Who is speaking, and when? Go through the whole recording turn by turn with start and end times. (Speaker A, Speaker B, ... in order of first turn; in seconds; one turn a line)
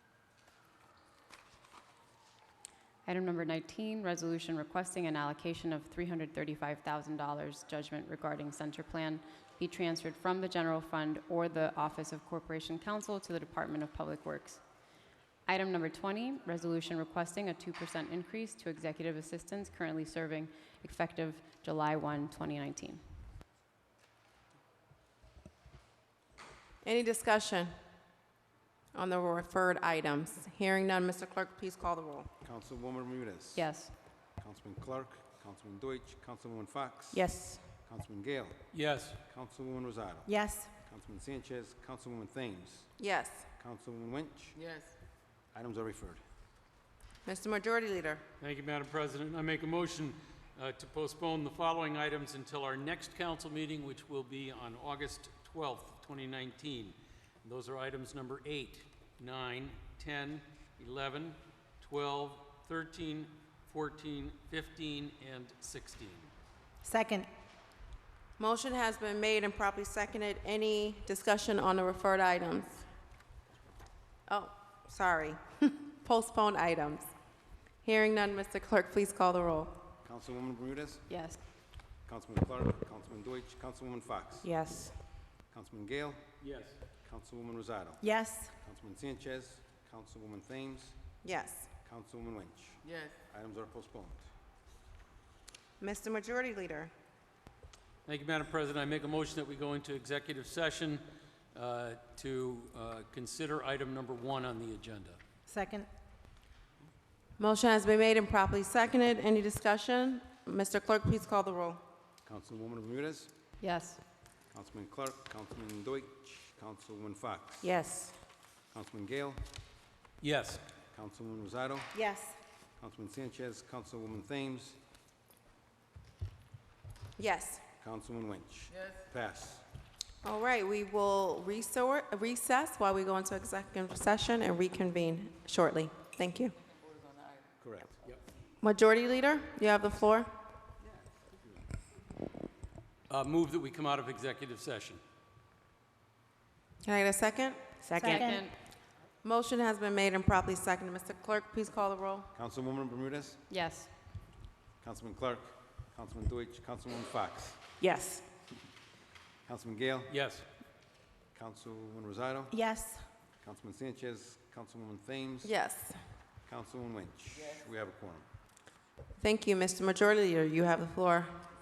Speaker A: 3.1-14.6
Speaker A: 15.5-23.0
Speaker B: 26.8-27.7
Speaker B: 28.9-32.3
Speaker C: 32.4-33.7
Speaker A: 33.5-33.9
Speaker C: 34.4-38.6
Speaker D: 37.1-37.6
Speaker E: 38.7-39.2
Speaker C: 39.2-42.9
Speaker D: 40.3-40.7
Speaker B: 43.0-43.5
Speaker C: 43.6-44.6
Speaker C: 45.5-46.2
Speaker B: 47.3-48.2
Speaker E: 48.4-66.3
Speaker D: 66.8-67.3
Speaker B: 68.4-72.8
Speaker B: 74.3-77.1
Speaker B: 77.8-79.8
Speaker C: 80.0-81.1
Speaker A: 81.1-81.4
Speaker C: 82.1-84.5
Speaker D: 84.4-85.0
Speaker C: 85.5-86.2
Speaker E: 86.4-86.8
Speaker C: 87.0-88.0
Speaker D: 88.0-88.5
Speaker C: 88.6-91.0
Speaker B: 91.2-91.7
Speaker C: 91.8-94.2
Speaker B: 95.8-96.9
Speaker E: 98.1-105.2
Speaker D: 105.5-105.9
Speaker B: 107.4-111.8
Speaker C: 112.3-113.3
Speaker A: 113.6-114.0
Speaker C: 114.5-117.8
Speaker D: 117.8-118.2
Speaker C: 118.7-119.4
Speaker E: 120.2-120.6
Speaker C: 120.9-122.0
Speaker D: 121.9-122.4
Speaker C: 122.8-124.8
Speaker B: 127.2-127.6
Speaker C: 127.8-129.6
Speaker B: 130.2-136.6
Speaker C: 137.6-138.0
Speaker B: 138.6-140.3
Speaker E: 143.1-145.0
Speaker B: 146.8-147.8
Speaker D: 147.8-148.4
Speaker A: 148.0-148.6
Speaker B: 149.2-152.3
Speaker C: 152.3-153.4
Speaker A: 153.5-153.9
Speaker C: 154.8-157.6
Speaker D: 157.8-158.3
Speaker C: 159.5-160.1
Speaker E: 160.1-160.5
Speaker C: 161.3-162.6
Speaker D: 162.5-163.1
Speaker C: 163.4-165.5
Speaker B: 165.4-166.0
Speaker C: 166.5-168.3
Speaker B: 169.2-171.3